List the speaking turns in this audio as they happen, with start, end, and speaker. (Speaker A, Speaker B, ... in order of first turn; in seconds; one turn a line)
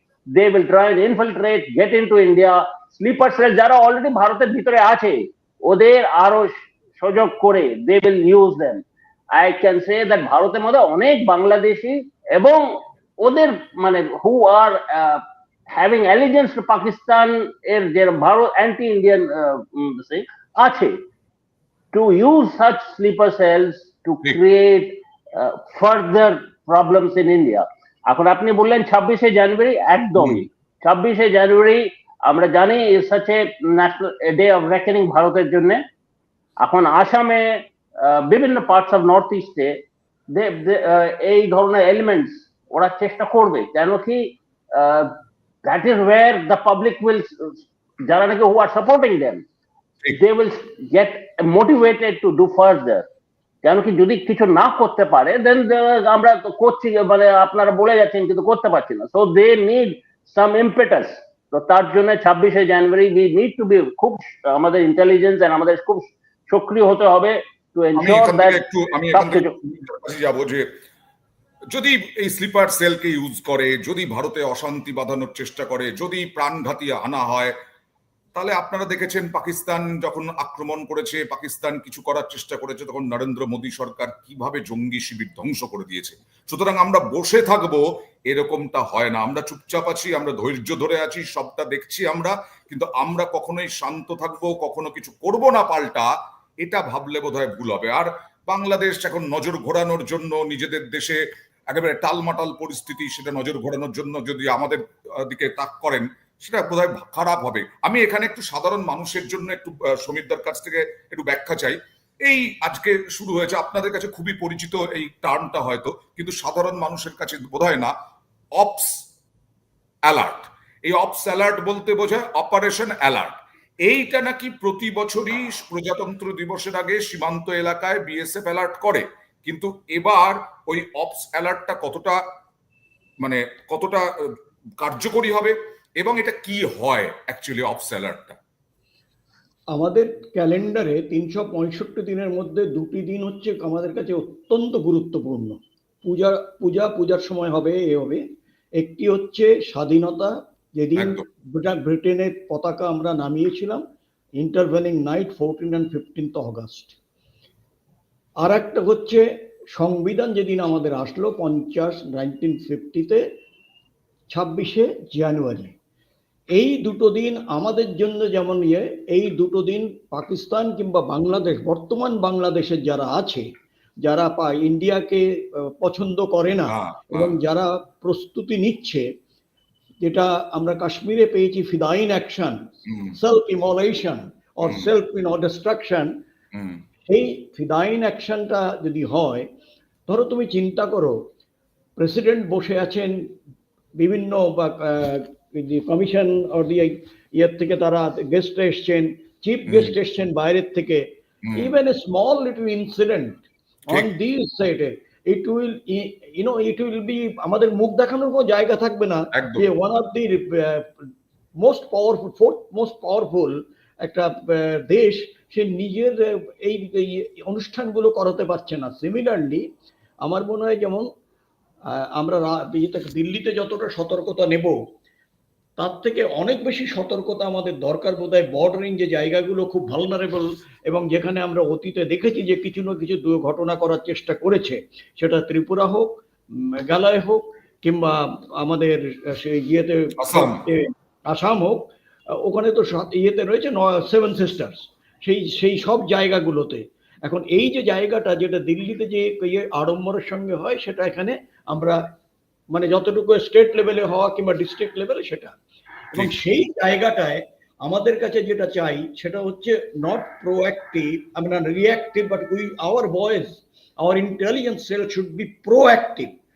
Speaker A: 0.3-8.8
Speaker A: 9.4-12.7
Speaker A: 13.2-15.2
Speaker A: 15.7-20.9
Speaker A: 21.9-35.8
Speaker B: 30.2-30.4
Speaker A: 36.6-39.7
Speaker A: 40.3-45.1
Speaker A: 45.7-47.6
Speaker A: 48.1-49.4
Speaker A: 50.1-53.0
Speaker A: 53.6-68.6
Speaker B: 68.0-70.7
Speaker A: 69.1-69.5
Speaker B: 71.7-77.5
Speaker B: 78.3-96.1
Speaker B: 96.6-117.9
Speaker B: 118.6-118.9
Speaker B: 120.1-123.3
Speaker B: 123.9-132.2
Speaker B: 133.2-134.0
Speaker B: 134.8-138.4
Speaker C: 139.7-148.2
Speaker C: 148.8-153.8
Speaker B: 151.0-151.2
Speaker C: 154.4-157.0
Speaker C: 158.4-159.2
Speaker C: 159.8-163.2
Speaker C: 164.3-165.8
Speaker C: 166.6-173.4
Speaker C: 174.0-175.3
Speaker C: 175.8-179.1
Speaker B: 176.7-177.4
Speaker C: 180.0-182.6
Speaker B: 182.9-183.2
Speaker C: 183.2-186.1
Speaker B: 186.5-186.8
Speaker C: 187.1-189.5
Speaker C: 190.1-191.2
Speaker C: 192.0-193.3
Speaker C: 194.0-210.9
Speaker B: 199.7-199.9
Speaker B: 201.5-201.7
Speaker B: 209.3-209.7
Speaker C: 211.6-219.7
Speaker C: 220.2-221.1
Speaker C: 222.2-224.8
Speaker C: 225.8-236.1
Speaker C: 236.8-241.8
Speaker B: 240.2-240.6
Speaker C: 242.4-252.0
Speaker C: 252.7-255.6
Speaker C: 256.1-266.3